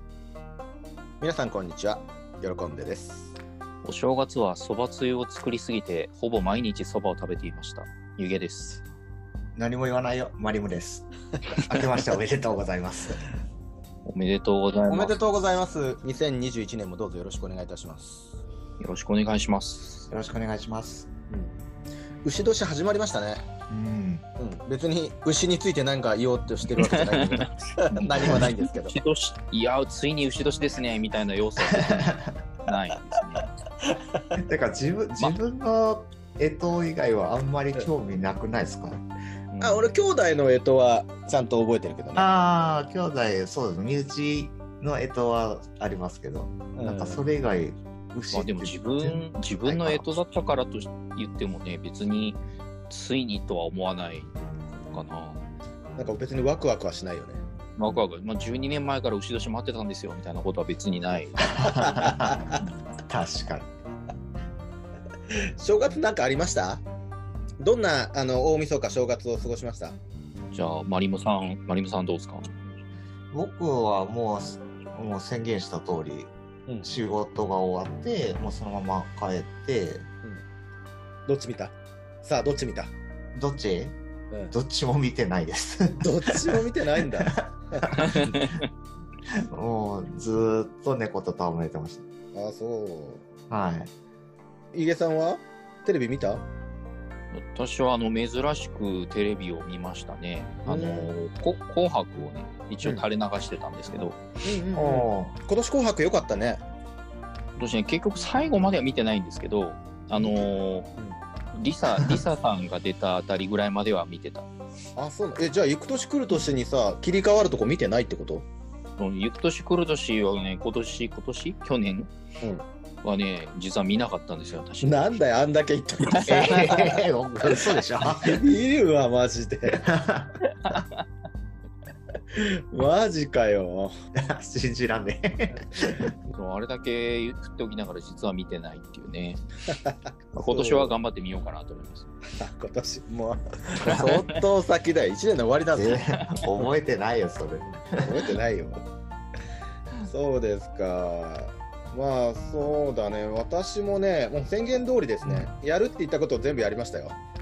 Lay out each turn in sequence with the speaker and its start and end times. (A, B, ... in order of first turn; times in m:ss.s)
0:01.2-0:03.4 A
0:03.8-0:08.8 B
0:09.6-0:13.2 C
0:14.1-0:15.2 B
0:14.9-0:18.4 A
0:18.8-0:20.1 B
0:20.1-0:21.1 C
0:21.3-0:21.6 A
0:22.2-0:23.5 A
0:23.7-0:24.2 C
0:24.4-0:29.0 A
0:26.8-0:27.5 B
0:28.1-0:33.5 B
0:28.2-0:28.5 C
0:32.0-0:32.2 C
0:33.8-0:34.4 A
0:34.4-0:39.0 C
0:39.5-0:39.9 B
0:39.6-0:42.5 A
0:42.2-0:50.1 C
0:46.7-0:47.3 A
0:48.3-0:52.4 B
0:52.9-0:55.4 B
0:56.0-0:57.4 A
0:57.8-1:01.6 B
1:01.4-1:03.7 C
1:01.6-1:02.6 A
1:05.3-1:06.8 A
1:07.6-1:10.0 A
1:10.5-1:12.5 B
1:13.3-1:16.3 C
1:16.8-1:20.1 C
1:21.3-1:22.9 A
1:23.4-1:24.0 C
1:24.3-1:24.6 A
1:24.5-1:28.4 C
1:26.0-1:27.9 A
1:27.9-1:28.7 B
1:29.3-1:32.0 C
1:32.3-1:33.3 A
1:33.5-1:33.9 C
1:34.7-1:36.5 A
1:37.3-1:44.2 B
1:40.7-1:41.1 A
1:44.4-1:46.6 A
1:44.8-1:45.3 C
1:47.6-1:50.9 B
1:50.2-1:50.4 A
1:51.0-1:51.2 A
1:51.5-1:54.5 B
1:55.0-1:58.5 A
1:59.0-2:02.1 B
2:02.4-2:02.7 A
2:03.0-2:05.1 B
2:04.8-2:09.8 A
2:06.2-2:08.4 C
2:09.7-2:10.4 C
2:10.5-2:11.0 B
2:12.3-2:13.9 A
2:14.2-2:16.1 C
2:15.8-2:16.1 A
2:16.3-2:19.4 B
2:19.7-2:21.0 A
2:20.4-2:22.1 B
2:22.3-2:26.0 A
2:23.8-2:24.1 C
2:23.8-2:24.4 B
2:25.8-2:28.1 C
2:27.9-2:28.8 A
2:30.0-2:37.2 A